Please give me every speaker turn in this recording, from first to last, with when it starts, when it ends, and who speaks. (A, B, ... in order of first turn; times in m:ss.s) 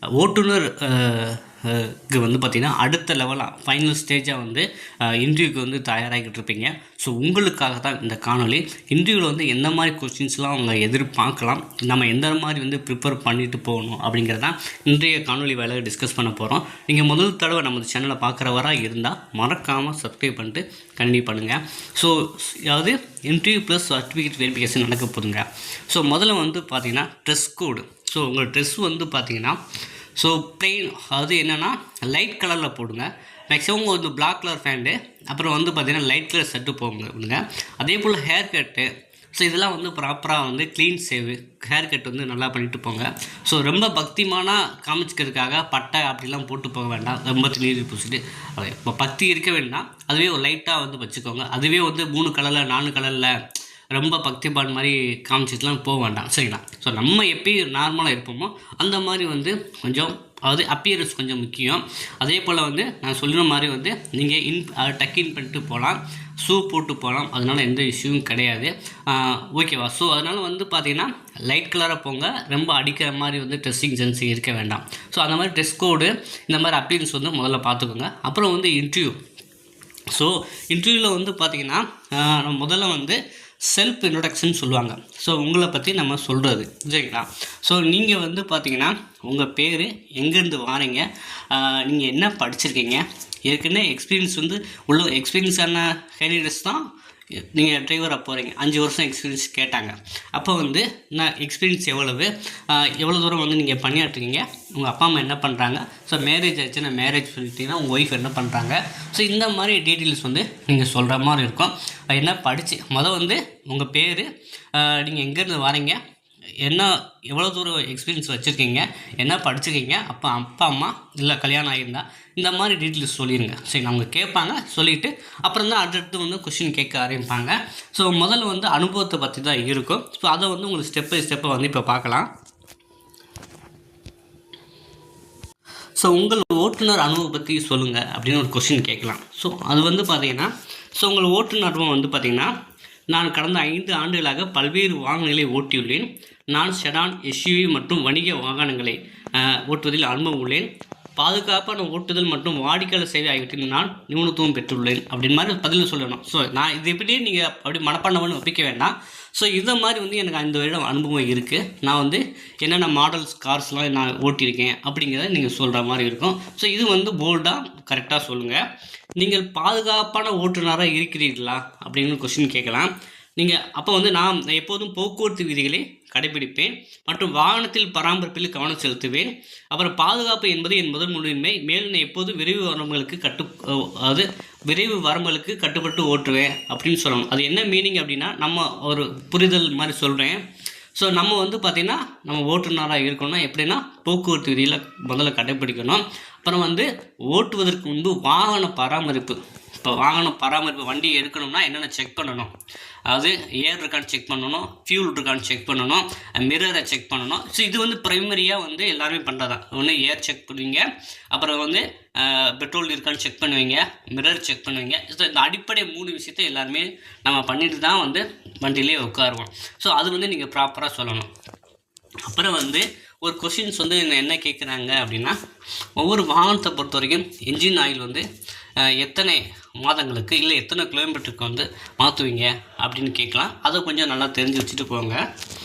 0:00.1-0:29.6 A
0:30.2-0:53.4 A
0:53.9-1:19.2 A
1:20.1-1:36.8 A
1:37.4-1:56.0 A
1:56.6-2:12.3 A
2:16.0-2:22.5 A
2:23.1-2:48.6 A
2:49.2-3:10.4 A
3:11.0-3:22.5 A
3:23.1-3:41.3 A
3:42.2-3:45.4 A
3:46.0-3:48.2 A
3:48.8-3:55.2 A